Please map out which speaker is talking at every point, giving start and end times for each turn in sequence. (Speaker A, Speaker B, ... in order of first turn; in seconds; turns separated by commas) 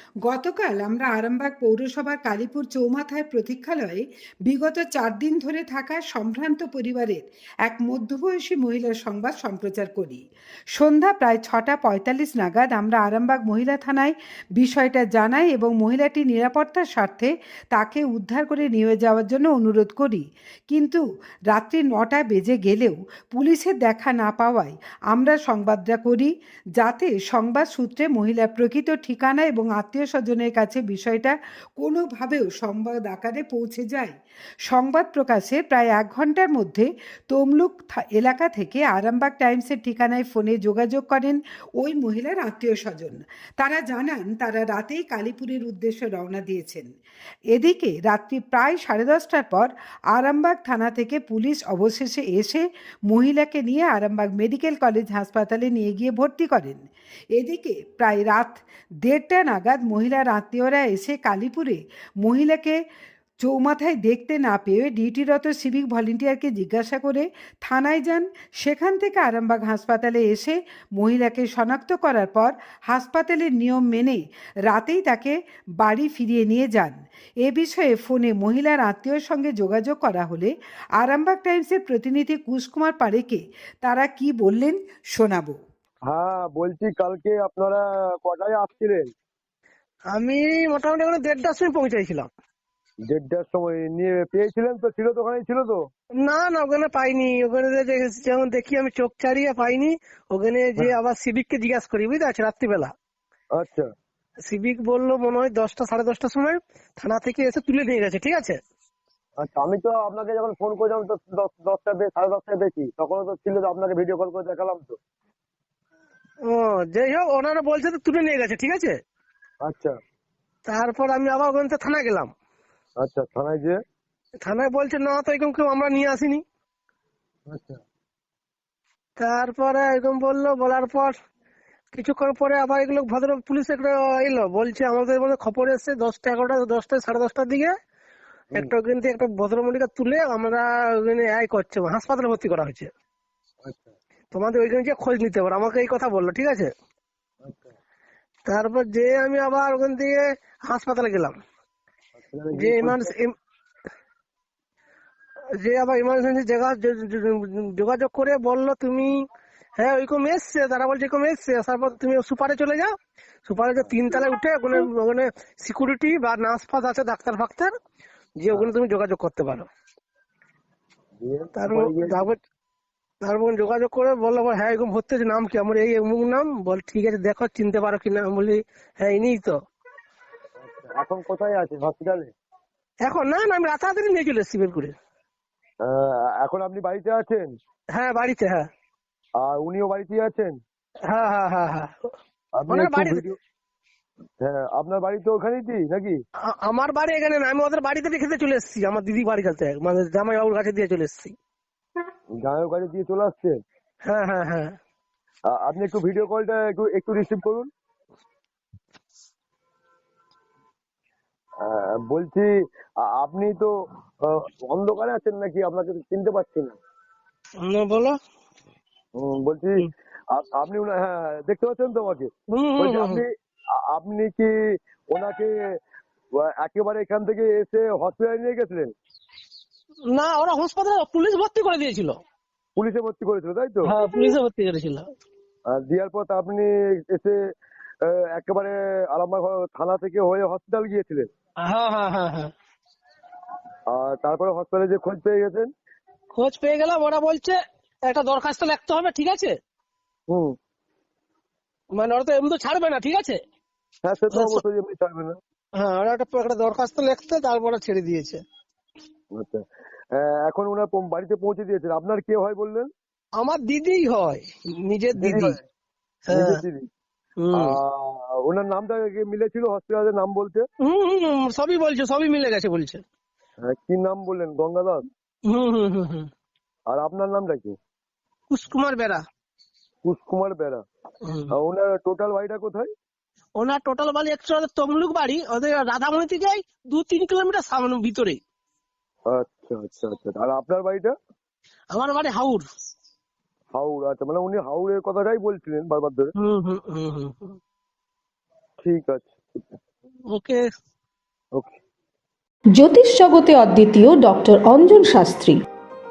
Speaker A: 0.2-10.2, Speaker A: 10.7-46.9, Speaker A: 47.5-56.8, Speaker A: 57.3-62.8, Speaker A: 63.4-85.6, Speaker B: 86.1-89.1, Speaker C: 90.1-92.3, Speaker B: 93.1-95.8, Speaker C: 96.2-102.9, Speaker B: 103.5-103.9, Speaker C: 104.5-108.6, Speaker B: 109.4-115.0, Speaker C: 116.5-119.0, Speaker B: 119.6-120.0, Speaker C: 120.7-122.3, Speaker B: 123.0-123.8, Speaker C: 124.4-126.4, Speaker B: 127.5-127.8, Speaker C: 129.2-131.1, Speaker C: 131.9-137.7, Speaker C: 138.5-142.9, Speaker B: 143.6-143.9, Speaker C: 144.3-146.7, Speaker B: 147.4-147.7, Speaker C: 148.4-151.4, Speaker B: 152.2-153.1, Speaker C: 152.5-153.3, Speaker C: 155.6-159.2, Speaker C: 159.8-162.9, Speaker C: 163.4-167.7, Speaker C: 168.4-169.7, Speaker B: 171.2-172.3, Speaker C: 171.5-172.4, Speaker C: 173.2-179.6, Speaker B: 180.6-182.3, Speaker C: 183.0-184.9, Speaker B: 185.8-187.5, Speaker C: 187.9-188.6, Speaker B: 189.4-190.5, Speaker C: 191.1-191.9, Speaker B: 192.6-193.3, Speaker C: 192.7-193.2, Speaker B: 194.4-196.2, Speaker C: 196.5-201.3, Speaker B: 202.4-203.6, Speaker C: 204.0-204.8, Speaker B: 205.5-207.7, Speaker B: 211.6-212.5, Speaker B: 213.0-213.7, Speaker B: 214.2-216.8, Speaker C: 217.6-218.2, Speaker B: 219.2-224.5, Speaker C: 222.5-223.2, Speaker B: 225.1-225.5, Speaker B: 226.4-228.9, Speaker C: 230.1-232.2, Speaker B: 232.8-233.9, Speaker C: 233.8-235.0, Speaker B: 235.7-237.3, Speaker B: 238.0-241.3, Speaker C: 241.6-242.5, Speaker B: 243.9-245.7, Speaker C: 246.3-249.5, Speaker C: 251.9-253.4, Speaker B: 254.0-255.4, Speaker C: 254.3-254.6, Speaker C: 255.8-258.4, Speaker B: 259.4-262.9, Speaker C: 263.4-265.6, Speaker B: 265.2-265.6, Speaker C: 266.3-266.6, Speaker B: 266.3-266.9, Speaker C: 267.4-267.7, Speaker B: 267.5-270.6, Speaker C: 270.8-273.0, Speaker B: 273.6-275.0, Speaker C: 275.5-276.3, Speaker B: 276.9-277.8, Speaker C: 278.5-279.2, Speaker B: 280.0-280.8, Speaker C: 281.2-281.5, Speaker B: 281.5-282.9, Speaker C: 283.6-288.4, Speaker B: 289.3-291.1, Speaker C: 291.9-292.6, Speaker B: 293.7-296.3, Speaker C: 296.4-297.6, Speaker B: 298.8-299.7, Speaker C: 300.3-300.6, Speaker D: 302.7-305.6